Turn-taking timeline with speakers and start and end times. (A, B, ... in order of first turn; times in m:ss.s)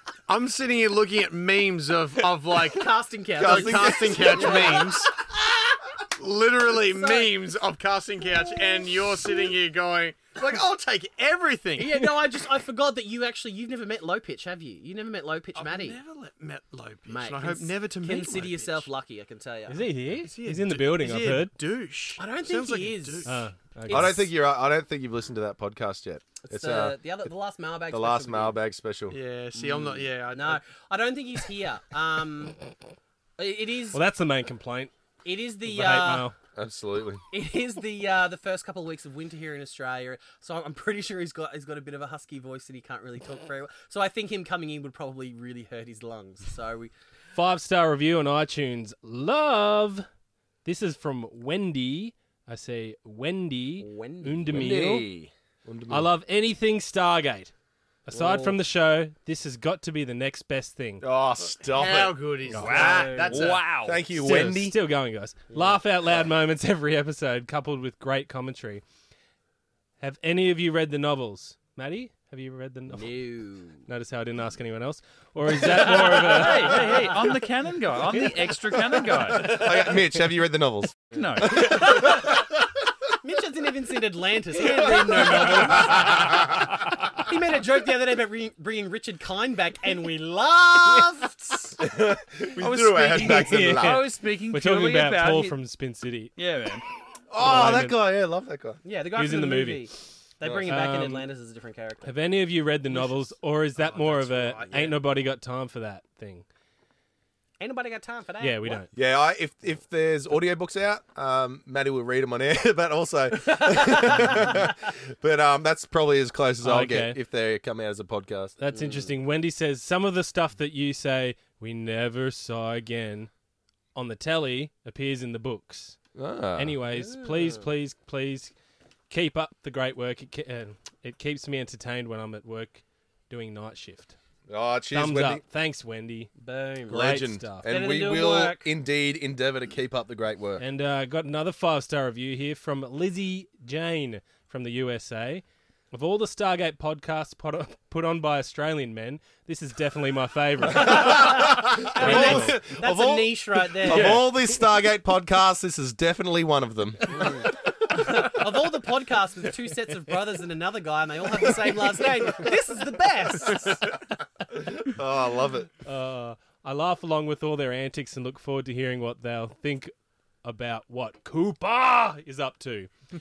0:00.3-0:05.1 A
0:02.7-0:05.1 B
0:03.4-0:04.9 C
0:06.2-0:12.1 A
0:06.9-0:07.3 B
0:11.8-0:16.0 B
0:15.6-0:18.9 A
0:17.1-0:19.9 B
0:19.7-0:21.5 D
0:20.2-0:23.4 A
0:22.2-0:23.3 B
0:23.2-0:24.3 D
0:23.9-0:24.2 B
0:23.9-0:27.3 C
0:26.4-0:28.6 B
0:27.9-0:29.2 C
0:29.1-0:30.6 A
0:29.6-0:32.6 B
0:33.4-0:34.0 B
0:33.9-0:34.9 D
0:35.2-0:36.3 B
0:35.6-0:36.3 D
0:36.6-0:37.2 C
0:37.3-0:46.9 B
0:47.3-0:50.0 D
0:50.6-0:55.1 D
0:53.8-0:54.8 B
0:54.5-0:56.1 C
0:55.9-0:57.5 D
0:58.0-1:01.0 D
0:58.1-0:58.6 B
1:01.0-1:02.2 C
1:01.7-1:03.6 A
1:02.5-1:02.9 D
1:02.6-1:04.0 E
1:02.6-1:03.5 B
1:03.8-1:04.8 C
1:04.2-1:08.8 D
1:05.5-1:05.8 B
1:10.0-1:13.2 D
1:12.9-1:13.9 B
1:13.8-1:16.9 D
1:15.6-1:17.3 B
1:15.8-1:19.6 E
1:19.3-1:22.3 C
1:21.1-1:21.9 E
1:21.5-1:22.4 B
1:23.2-1:26.6 B
1:24.7-1:26.2 C
1:27.1-1:31.8 B
1:31.8-1:34.0 C
1:32.6-1:35.6 E
1:33.2-1:36.3 D
1:36.4-1:36.8 E
1:37.3-1:38.8 C
1:37.4-1:38.0 D
1:38.8-1:42.1 B
1:39.1-1:39.9 D
1:40.4-1:40.7 C
1:40.6-1:41.3 D
1:42.0-1:46.4 D
1:42.9-1:45.0 A
1:47.6-1:48.8 B
1:48.4-1:48.9 D
1:48.9-1:58.6 C
1:53.5-1:54.5 B
1:56.6-1:57.2 D
1:58.6-2:03.3 D
1:58.7-1:59.1 B
2:03.9-2:06.0 D
2:06.1-2:06.8 C
2:06.6-2:08.5 D
2:06.9-2:07.7 B
2:09.1-2:14.2 D
2:14.5-2:15.4 C
2:14.9-2:16.3 D
2:16.4-2:18.7 B
2:16.9-2:17.7 D
2:16.9-2:20.6 C
2:20.6-2:32.6 D
2:30.7-2:34.2 B
2:30.7-2:37.5 C
2:33.8-2:34.5 D
2:37.1-2:44.0 B
2:44.6-2:45.7 C
2:45.8-2:49.9 D
2:50.4-2:52.9 D